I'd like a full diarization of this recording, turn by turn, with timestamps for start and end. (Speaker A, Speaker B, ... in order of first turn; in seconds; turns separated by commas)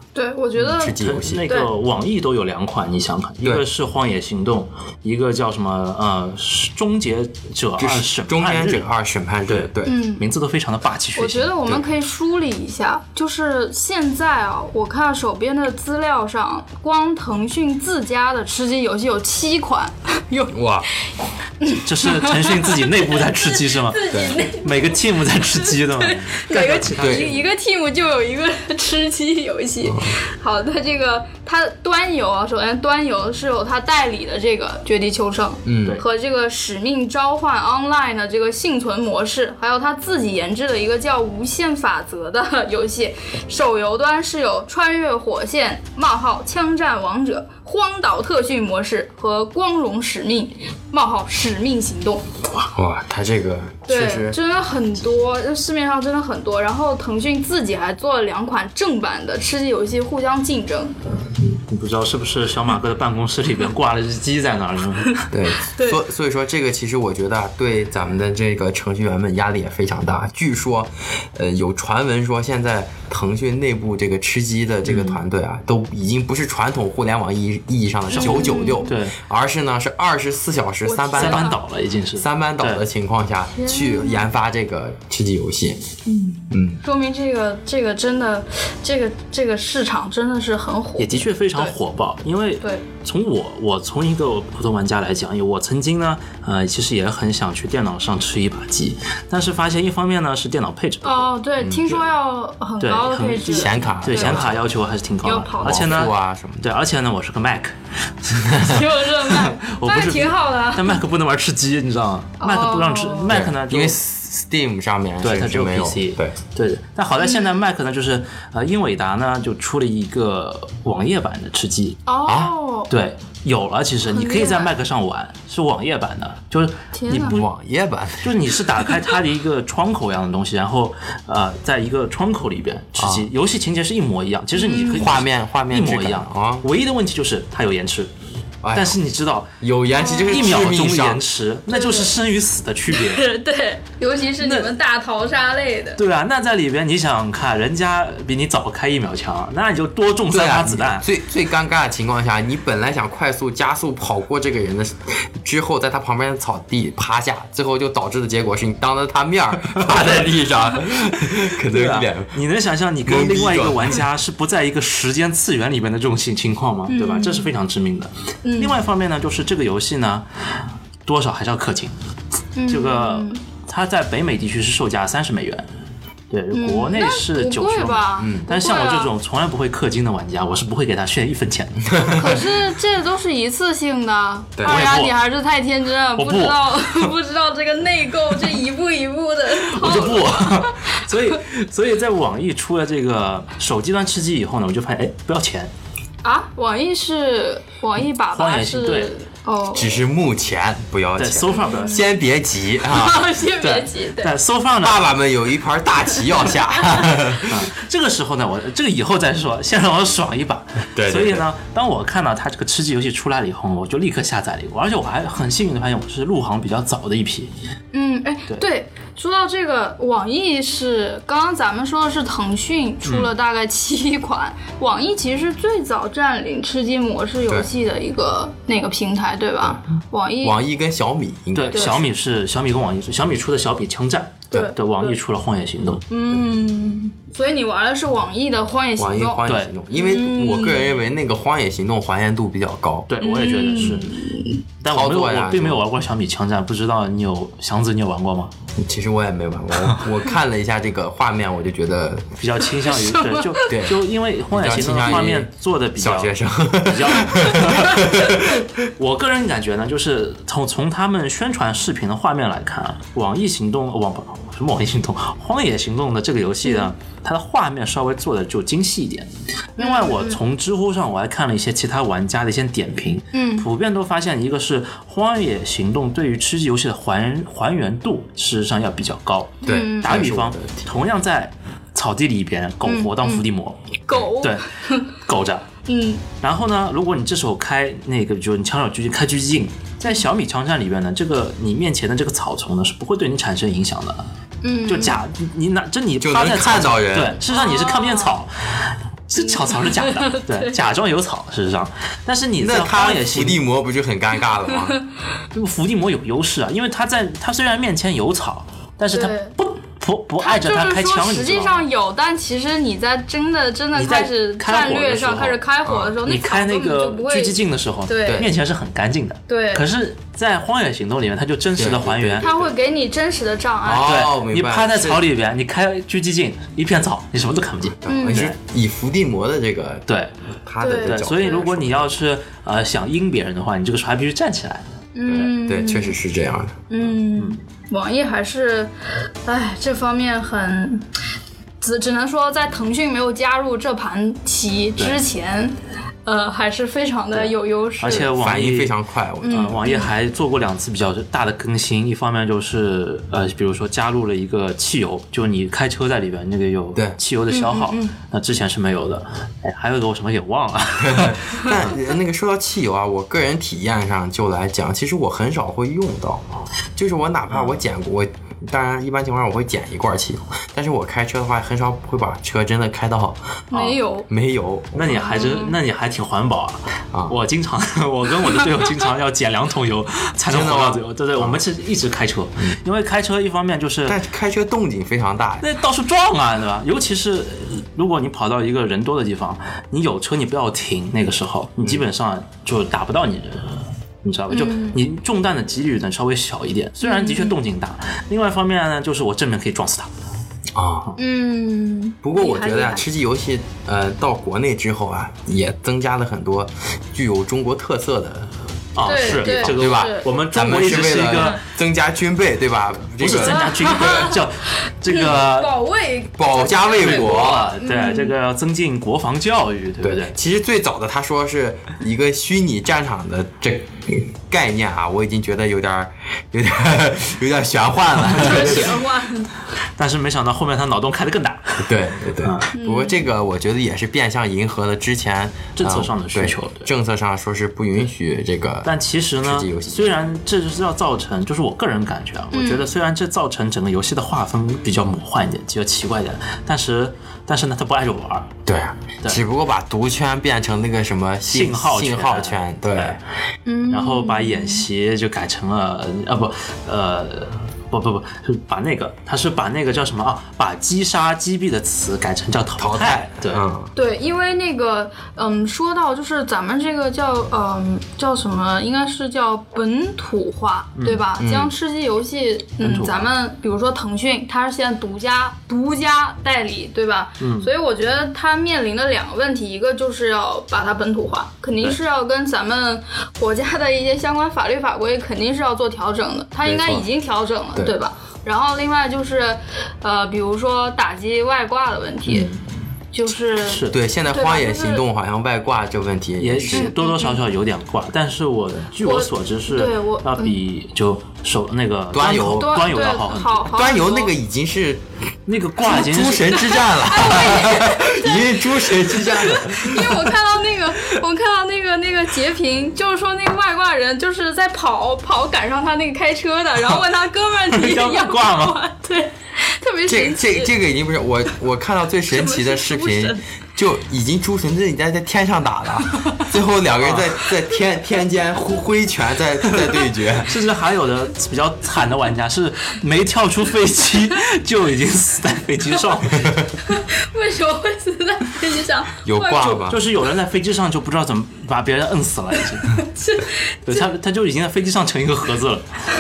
Speaker A: 0.1-1.7, Speaker B: 0.6-1.5, Speaker C: 0.8-8.9, Speaker B: 7.8-10.0, Speaker C: 9.5-11.7, Speaker A: 9.9-10.2, Speaker A: 11.2-20.6, Speaker B: 20.5-20.9, Speaker A: 21.6-52.2, Speaker C: 21.7-27.4, Speaker B: 24.1-24.4, Speaker B: 26.9-27.3, Speaker B: 29.9-30.1, Speaker B: 35.6-36.0, Speaker B: 52.6-54.4, Speaker A: 53.9-61.0, Speaker C: 61.7-65.2, Speaker A: 65.2-66.0, Speaker B: 65.3-81.5, Speaker C: 74.9-75.2, Speaker A: 78.1-78.9, Speaker C: 78.1-79.2, Speaker A: 80.8-81.6, Speaker C: 81.2-82.8, Speaker B: 82.2-85.8, Speaker A: 83.5-84.2, Speaker A: 86.1-91.7, Speaker B: 86.5-86.8, Speaker C: 91.0-101.3, Speaker A: 101.0-104.4, Speaker B: 101.6-102.0, Speaker C: 102.8-107.7, Speaker B: 103.5-104.7, Speaker A: 105.2-106.0, Speaker B: 105.6-106.7, Speaker B: 108.3-108.8, Speaker A: 108.6-111.0, Speaker C: 109.2-114.0, Speaker A: 112.4-113.4, Speaker B: 113.3-116.4, Speaker C: 115.2-122.0, Speaker A: 117.2-117.6, Speaker A: 122.1-122.9, Speaker B: 122.3-122.5, Speaker C: 122.9-127.5, Speaker A: 124.0-124.7, Speaker A: 126.9-127.4, Speaker B: 127.2-128.5, Speaker C: 128.2-138.1, Speaker B: 133.0-133.3, Speaker A: 134.6-135.1, Speaker B: 134.9-136.7, Speaker B: 138.6-139.0, Speaker C: 138.7-139.5, Speaker B: 139.6-141.2, Speaker A: 139.9-140.7, Speaker C: 140.3-143.2, Speaker A: 141.7-142.1, Speaker A: 142.9-146.0, Speaker C: 144.4-144.7, Speaker C: 146.0-151.1, Speaker B: 150.3-162.4, Speaker C: 161.6-170.3, Speaker B: 163.1-164.0, Speaker A: 166.9-167.5, Speaker A: 168.4-168.8, Speaker C: 171.1-171.9, Speaker A: 172.6-173.4, Speaker C: 172.7-175.7, Speaker C: 176.3-182.0, Speaker A: 176.5-179.1, Speaker B: 178.2-178.5, Speaker B: 181.9-182.4, Speaker A: 182.1-191.1, Speaker B: 184.6-184.8, Speaker C: 184.7-185.1, Speaker C: 186.2-187.1, Speaker C: 189.6-195.7, Speaker A: 196.2-200.0, Speaker C: 198.3-199.1, Speaker B: 199.7-203.9, Speaker C: 201.2-202.1, Speaker A: 201.5-202.0, Speaker A: 202.9-204.3, Speaker C: 204.2-205.1, Speaker B: 204.8-207.7, Speaker C: 207.5-217.5, Speaker B: 211.0-211.5, Speaker A: 217.9-230.6, Speaker C: 223.0-223.3, Speaker B: 230.4-232.0, Speaker C: 231.5-236.1, Speaker A: 231.7-232.0, Speaker A: 234.5-235.2, Speaker A: 236.1-241.0, Speaker B: 239.0-243.1, Speaker C: 239.5-239.7, Speaker C: 243.1-244.1, Speaker A: 243.2-244.6, Speaker B: 243.8-244.0, Speaker C: 244.8-248.5, Speaker B: 244.9-245.8, Speaker B: 248.8-252.3, Speaker C: 252.4-283.8, Speaker A: 252.8-253.7, Speaker B: 253.7-258.8, Speaker A: 266.6-266.9, Speaker A: 269.8-270.4, Speaker A: 273.3-273.7, Speaker A: 279.6-280.2, Speaker B: 279.6-280.9, Speaker A: 282.9-283.4, Speaker A: 284.1-285.1, Speaker C: 284.4-285.7, Speaker A: 285.9-286.2, Speaker C: 286.4-294.2, Speaker A: 294.6-295.2, Speaker C: 294.9-303.6, Speaker B: 296.2-297.4, Speaker A: 297.5-298.4, Speaker A: 299.4-300.8, Speaker B: 302.6-305.0, Speaker C: 305.5-311.9, Speaker A: 309.1-309.5, Speaker A: 310.4-318.5, Speaker C: 314.0-315.6, Speaker B: 315.9-316.2, Speaker C: 316.2-322.6, Speaker A: 319.5-319.9, Speaker B: 321.8-322.6, Speaker A: 322.4-324.2, Speaker B: 323.8-325.2, Speaker C: 324.0-328.6, Speaker B: 328.0-330.1, Speaker A: 328.1-328.5, Speaker B: 330.7-332.1, Speaker A: 330.8-331.7, Speaker C: 331.0-335.5, Speaker A: 335.2-336.2, Speaker B: 335.6-336.9, Speaker A: 336.9-338.9, Speaker A: 339.4-341.1, Speaker A: 341.8-348.3, Speaker C: 347.3-348.9, Speaker B: 348.3-349.8, Speaker A: 349.4-350.1, Speaker C: 349.5-361.9, Speaker A: 357.5-358.1, Speaker B: 361.0-366.4, Speaker B: 367.0-373.4, Speaker C: 367.5-367.8, Speaker A: 373.7-374.3, Speaker B: 374.3-375.2, Speaker C: 374.9-384.2, Speaker A: 375.1-375.8, Speaker B: 377.1-377.4, Speaker B: 380.5-381.6, Speaker B: 384.1-385.7, Speaker C: 385.6-400.1, Speaker B: 391.8-392.1, Speaker A: 394.5-395.0, Speaker A: 397.0-397.6, Speaker B: 400.7-401.1, Speaker A: 401.2-403.1, Speaker B: 402.2-408.5, Speaker C: 408.9-411.6, Speaker A: 409.0-410.3, Speaker B: 409.1-414.0, Speaker C: 413.2-415.8, Speaker A: 413.3-414.4, Speaker A: 415.1-418.3, Speaker B: 416.4-417.7, Speaker C: 416.9-420.3, Speaker B: 420.0-429.0, Speaker C: 428.2-429.0, Speaker A: 428.3-429.5, Speaker C: 430.0-432.7, Speaker B: 431.8-440.1, Speaker A: 432.7-433.2, Speaker C: 435.8-436.9, Speaker C: 438.9-448.5, Speaker A: 442.5-442.9, Speaker B: 448.7-453.2, Speaker C: 451.5-453.2, Speaker A: 453.7-454.9, Speaker C: 453.9-463.7, Speaker B: 462.8-463.9, Speaker A: 463.9-492.5, Speaker C: 471.0-471.2, Speaker B: 471.4-471.7, Speaker C: 472.8-473.3, Speaker C: 477.4-477.7, Speaker B: 486.6-487.1, Speaker C: 492.3-492.6, Speaker A: 493.1-495.0, Speaker C: 493.6-494.0, Speaker B: 493.9-496.9, Speaker C: 496.4-503.7, Speaker A: 496.7-497.4, Speaker A: 499.0-500.6, Speaker B: 502.1-502.8, Speaker A: 502.2-504.3, Speaker B: 503.7-505.0, Speaker C: 505.5-506.8, Speaker B: 505.8-510.3, Speaker A: 506.5-520.7, Speaker C: 517.7-518.8, Speaker B: 520.1-530.5, Speaker A: 522.3-523.4, Speaker A: 526.1-526.5, Speaker C: 527.0-527.4, Speaker C: 529.7-536.6, Speaker A: 536.8-539.9, Speaker B: 539.2-540.0, Speaker C: 539.9-543.0, Speaker A: 542.9-544.1, Speaker C: 543.9-545.9